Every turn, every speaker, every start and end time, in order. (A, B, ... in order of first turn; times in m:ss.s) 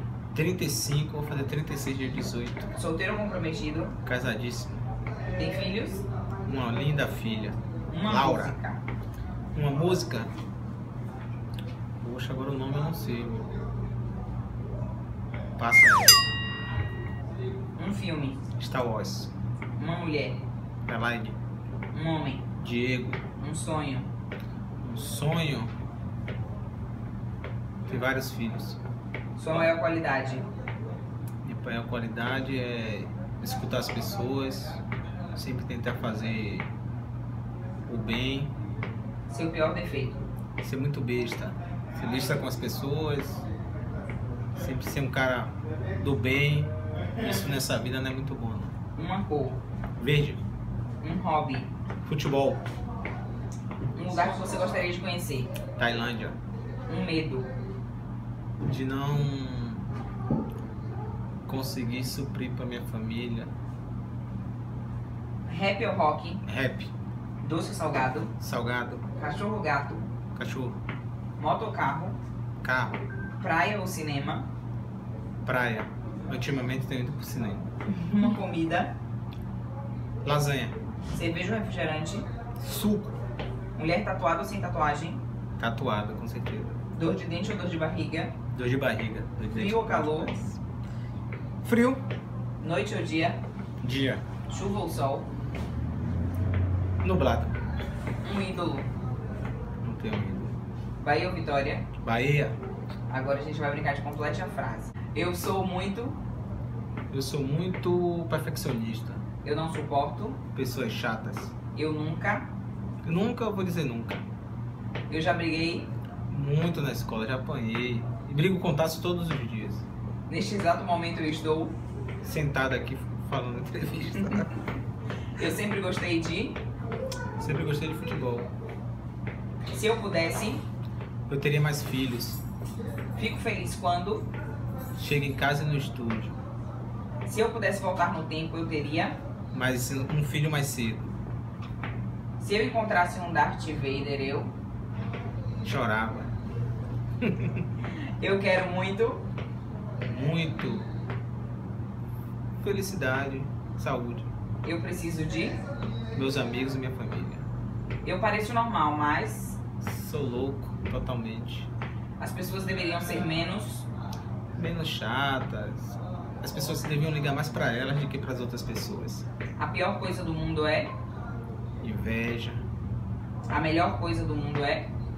0:00.3-0:02.6 A
0:02.7-0:04.0 B
0:04.0-0:04.8 A
0:05.3-0:06.0 B
0:06.4-0:08.6 A
0:07.9-0:08.8 B
0:09.5-0:10.3 A
0:12.0-0:13.5 A
0:15.6-0:16.2 A
0:17.8-0:18.4 B
0:18.6-0:19.3 A
0:19.8-0:20.4 B
0:20.8-0:21.4 A
0:21.9-0:22.4 B
0:22.6-0:23.2 A
0:23.4-0:24.1 B
0:24.8-0:25.7 A
0:27.8-0:28.8 A
0:29.4-0:30.4 B
0:31.4-0:34.8 A
0:35.3-0:36.7 A
0:37.8-0:38.5 A
0:39.3-0:40.2 B
0:40.6-0:43.4 A
0:44.6-0:48.7 A
0:49.0-0:49.6 B
0:50.0-0:50.4 A
0:51.0-0:51.7 B
0:52.0-0:52.6 A
0:53.9-0:55.5 B
0:55.8-0:56.4 A
0:56.9-0:57.5 B
0:58.6-0:59.8 A
1:01.4-1:03.5 A
1:05.5-1:06.4 B
1:06.4-1:06.9 A
1:07.4-1:08.3 B
1:08.4-1:09.0 A
1:09.1-1:10.1 B
1:10.4-1:10.8 A
1:11.4-1:12.2 B
1:12.6-1:13.0 A
1:13.4-1:14.5 B
1:15.4-1:17.7 A
1:17.9-1:18.9 B
1:20.2-1:20.8 A
1:21.1-1:22.2 B
1:22.6-1:23.1 A
1:23.8-1:25.2 B
1:25.6-1:26.8 A
1:26.9-1:28.3 B
1:28.5-1:30.6 A
1:29.5-1:30.4 B
1:31.6-1:32.0 A
1:32.6-1:33.4 B
1:33.8-1:34.2 A
1:34.5-1:35.3 B
1:37.0-1:37.6 A
1:38.2-1:38.9 B
1:39.8-1:40.6 A
1:41.0-1:41.8 B
1:42.0-1:42.6 A
1:43.1-1:46.2 B
1:47.1-1:49.2 A
1:49.4-1:50.4 B
1:50.5-1:51.5 A
1:51.7-1:52.5 B
1:53.0-1:54.2 A
1:55.1-1:55.9 B
1:56.3-1:59.8 A
2:00.3-2:01.8 B
2:02.2-2:04.5 A
2:05.4-2:06.6 B
2:07.4-2:08.5 A
2:09.7-2:10.6 B
2:11.3-2:12.4 A
2:13.1-2:14.3 B
2:15.0-2:16.4 A
2:17.2-2:19.2 B
2:19.5-2:21.1 A
2:22.4-2:24.5 B
2:25.6-2:26.3 A
2:27.2-2:27.6 A
2:28.2-2:29.2 B
2:30.0-2:30.9 A
2:32.6-2:34.3 A
2:34.6-2:35.6 B
2:36.1-2:37.4 A
2:38.0-2:39.6 B
2:39.8-2:41.7 A
2:42.2-2:43.9 B
2:44.5-2:49.3 A
2:49.6-2:50.9 B
2:51.8-2:52.6 A
2:53.5-2:54.9 B